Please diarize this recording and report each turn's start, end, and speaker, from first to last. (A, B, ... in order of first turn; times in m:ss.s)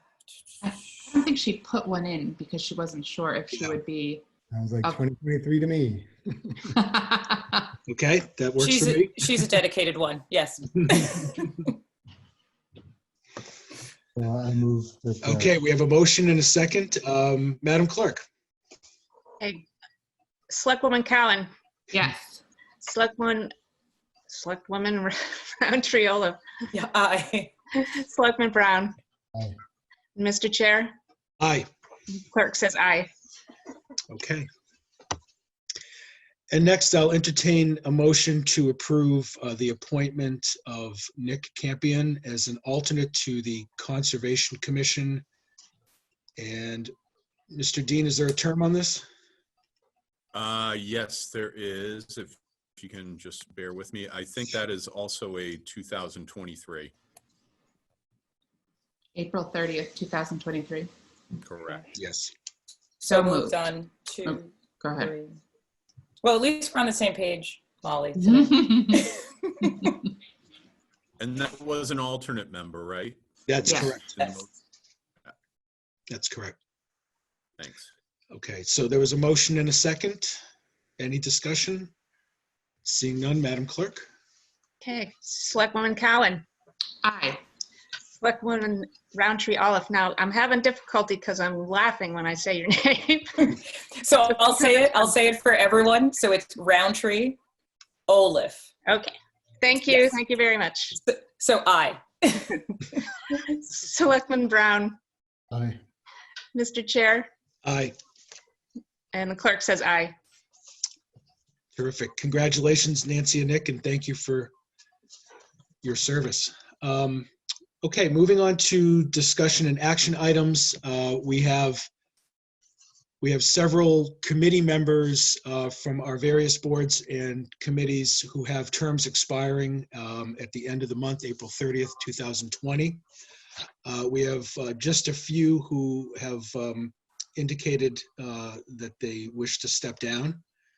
0:00.6-0:04.2 A
0:04.5-0:06.8 B
0:06.8-0:07.7 A
0:07.9-0:09.4 C
0:08.6-0:11.7 D
0:14.2-0:15.6 B
0:15.2-0:18.2 C
0:20.5-0:21.5 E
0:21.9-0:22.4 A
0:22.8-0:23.5 E
0:24.3-0:26.4 E
0:26.7-0:27.5 D
0:27.7-0:28.9 E
0:30.2-0:30.9 E
0:31.4-0:31.7 C
0:32.1-0:33.1 E
0:34.1-0:34.5 C
0:36.5-0:45.2 C
0:46.4-0:46.9 C
0:47.5-0:49.0 C
0:50.3-0:56.9 F
0:59.2-1:00.9 A
1:01.4-1:01.9 F
1:01.9-1:02.3 C
1:03.0-1:05.4 D
1:03.0-1:03.7 A
1:04.2-1:05.1 A
1:06.2-1:10.0 D
1:08.2-1:09.1 A
1:11.2-1:14.5 F
1:13.5-1:14.2 C
1:13.6-1:14.0 A
1:16.1-1:16.6 C
1:17.6-1:17.9 F
1:18.3-1:20.4 C
1:21.0-1:21.9 C
1:22.8-1:24.1 C
1:24.8-1:26.5 E
1:27.0-1:27.4 A
1:28.2-1:33.6 E
1:34.0-1:37.4 D
1:38.1-1:38.7 D
1:38.9-1:41.0 E
1:41.1-1:43.0 D
1:43.3-1:45.0 E
1:45.5-1:45.8 B
1:46.5-1:47.3 E
1:47.6-1:48.0 C
1:49.1-1:50.2 E
1:51.8-1:54.5 C
1:55.8-1:57.3 C
1:57.8-2:01.9 C
2:03.2-2:13.0 C
2:13.8-2:20.4 C